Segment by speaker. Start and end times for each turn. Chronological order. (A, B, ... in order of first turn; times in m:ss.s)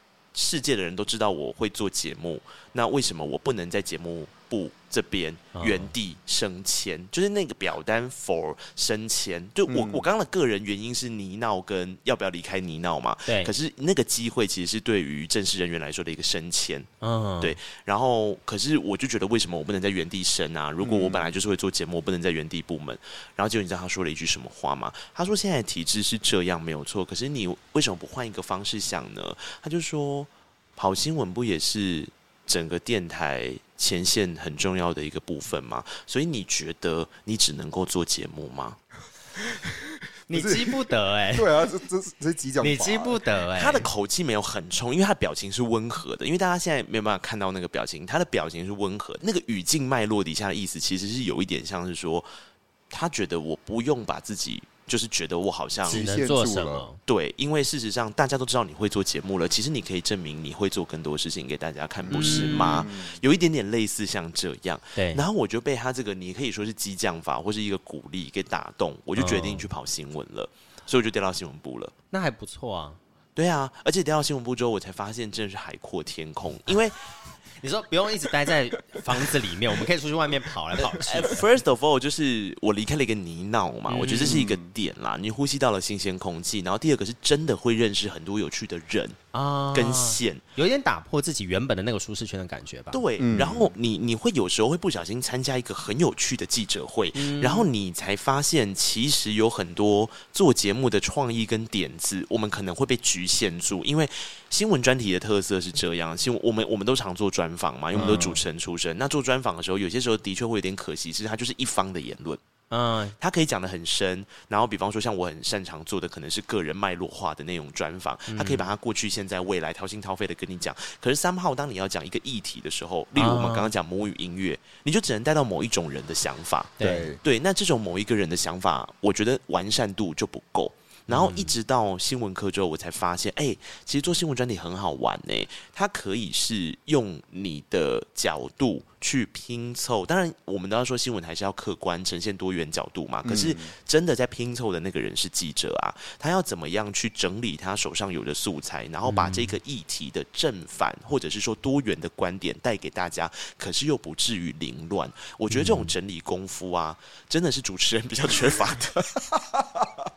0:00.3-0:16.9 A
0:05.6-0:05.9 B
0:09.7-0:10.1 C
0:13.3-0:13.5 B
0:17.0-0:17.6 B
0:17.4-0:38.8 A
0:20.8-0:21.3 C
0:39.5-0:39.8 C
0:40.3-0:40.7 C
0:40.3-0:41.5 B
0:41.3-0:43.2 C
0:42.6-0:43.9 B
0:43.6-0:52.3 A
0:52.9-0:56.1 A
0:55.8-0:56.9 C
0:55.9-0:57.0 B
0:57.1-1:11.9 A
1:02.0-1:03.2 C
1:02.1-1:02.9 B
1:05.0-1:05.2 B
1:09.2-1:09.7 B
1:12.1-1:13.0 B
1:13.4-1:17.0 A
1:17.6-1:21.5 B
1:20.8-1:29.2 A
1:23.9-1:24.4 B
1:24.1-1:24.7 C
1:29.3-1:33.0 B
1:29.7-1:30.4 A
1:32.9-1:52.4 A
1:33.2-1:33.7 C
1:37.2-1:37.7 B
1:47.9-1:48.4 C
1:52.7-1:53.2 B
1:53.2-2:39.2 A
1:58.3-1:58.7 B
2:03.2-2:03.7 B
2:06.8-2:07.1 B
2:06.8-2:07.2 C
2:11.1-2:11.6 B
2:23.2-2:23.7 C
2:29.1-2:29.6 B
2:35.5-2:36.0 B
2:39.3-2:39.9 C